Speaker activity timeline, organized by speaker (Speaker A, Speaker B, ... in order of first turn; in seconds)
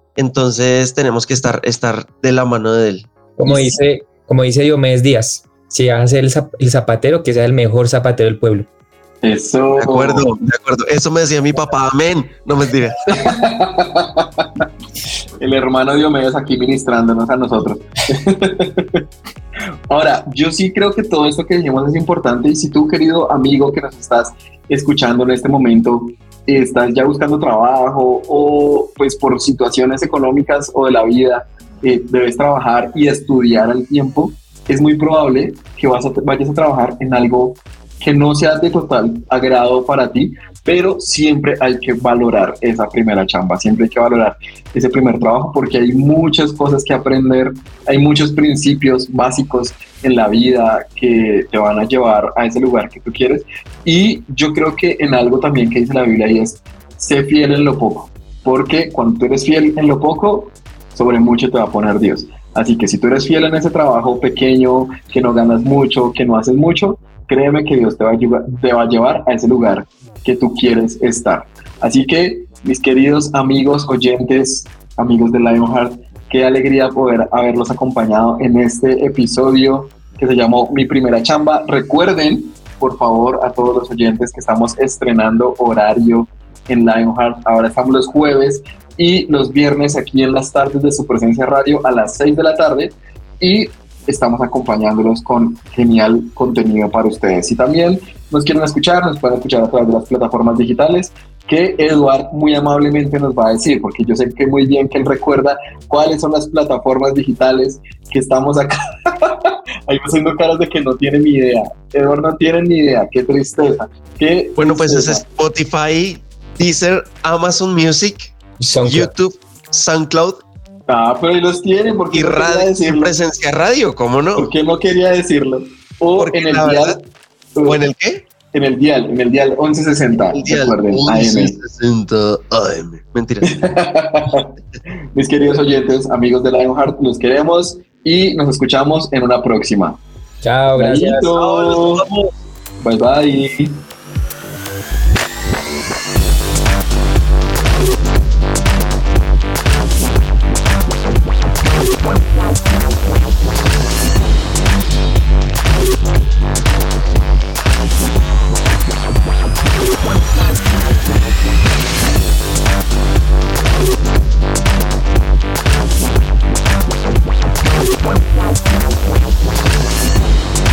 Speaker A: 0.1-3.1, 9.8-13.0, 114.6-120.4, 122.1-124.5, 126.2-127.0, 127.6-128.2, 130.2-133.6, 141.3-142.4
Speaker B: 3.4-8.7, 118.6-119.1, 140.4-141.3
Speaker C: 3.5-3.7, 9.2-10.3, 13.1-14.4, 15.4-19.0, 19.9-115.2, 120.9-123.1, 124.4-127.0, 128.5-131.6, 133.5-134.5, 135.1-140.0, 140.8-142.1, 142.8-143.8